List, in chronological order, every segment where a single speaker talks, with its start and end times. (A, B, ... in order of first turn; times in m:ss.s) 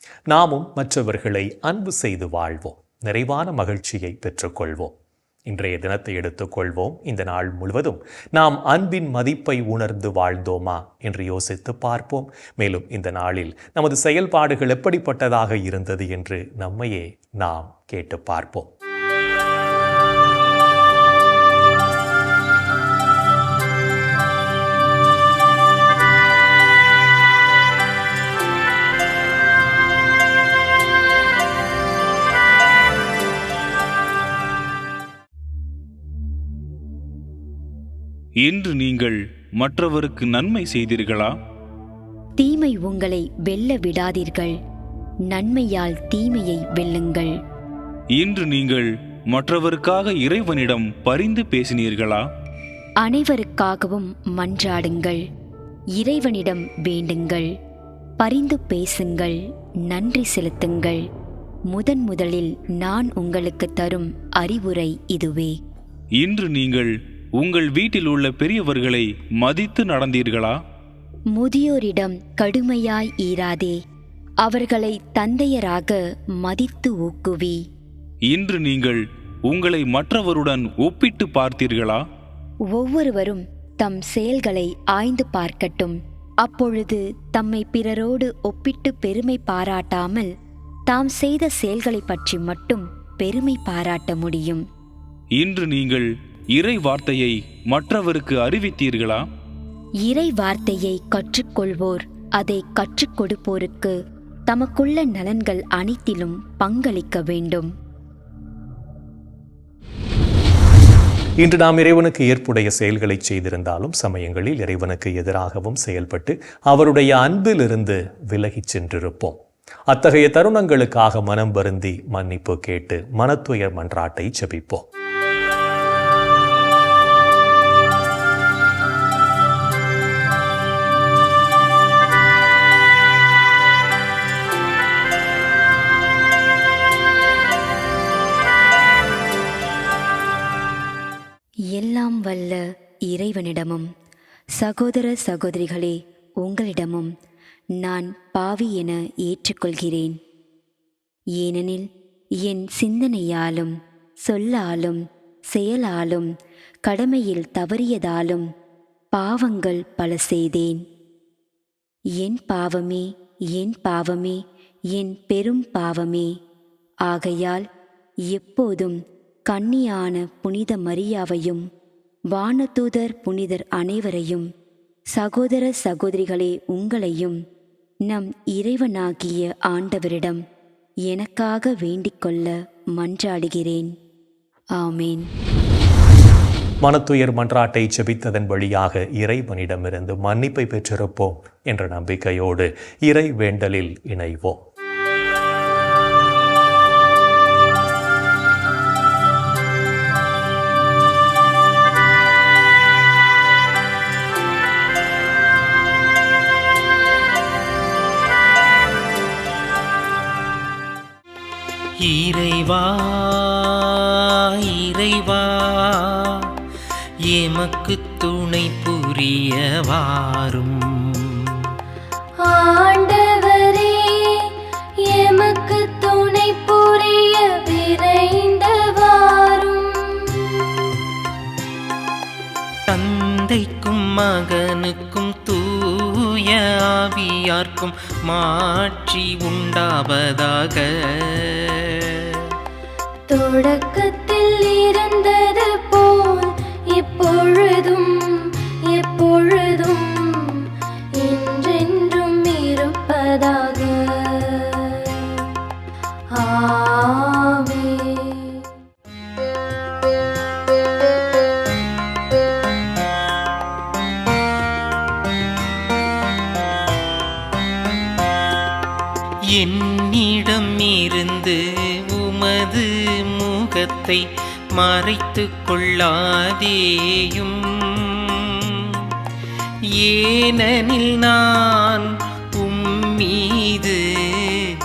0:00.3-0:04.9 A
0:05.5-0:18.7 A
0:38.4-0:41.4 B
0:42.4-0:44.6 C
0:45.3-0:47.3 C
0:48.1-0:52.2 B
0:53.0-0:55.2 C
0:55.9-0:57.5 C
0:58.2-1:01.0 C
1:01.7-1:05.6 C
1:06.2-1:10.6 B
1:11.3-1:13.8 C
1:14.4-1:17.6 C
1:18.3-1:22.0 B
1:22.7-1:30.3 C
1:30.9-1:34.6 C
1:35.4-1:39.2 B
1:40.0-1:43.9 C
1:44.5-1:47.7 C
1:51.4-2:04.8 A
2:21.7-2:23.9 C
2:24.6-2:27.1 C
2:27.8-2:30.2 C
2:31.4-2:31.9 C
2:32.4-2:36.3 C
2:36.8-2:38.5 C
2:39.1-2:40.8 C
2:42.2-2:44.4 C
2:44.9-2:46.3 C
2:47.0-2:47.6 C
2:48.3-2:51.6 C
2:52.3-2:54.5 C
2:55.1-2:57.4 C
2:58.1-3:00.4 C
3:01.1-3:03.9 C
3:04.8-3:05.3 C
3:06.8-3:14.6 A
3:32.0-3:36.4 D
3:37.3-3:41.4 D
3:42.4-3:44.5 E
3:45.0-3:50.9 E
3:52.9-4:02.1 D
4:03.3-4:15.4 E
4:16.3-4:18.6 E
4:29.5-4:34.2 D
4:34.7-4:38.8 D
4:40.0-4:42.0 D
4:42.6-4:44.6 D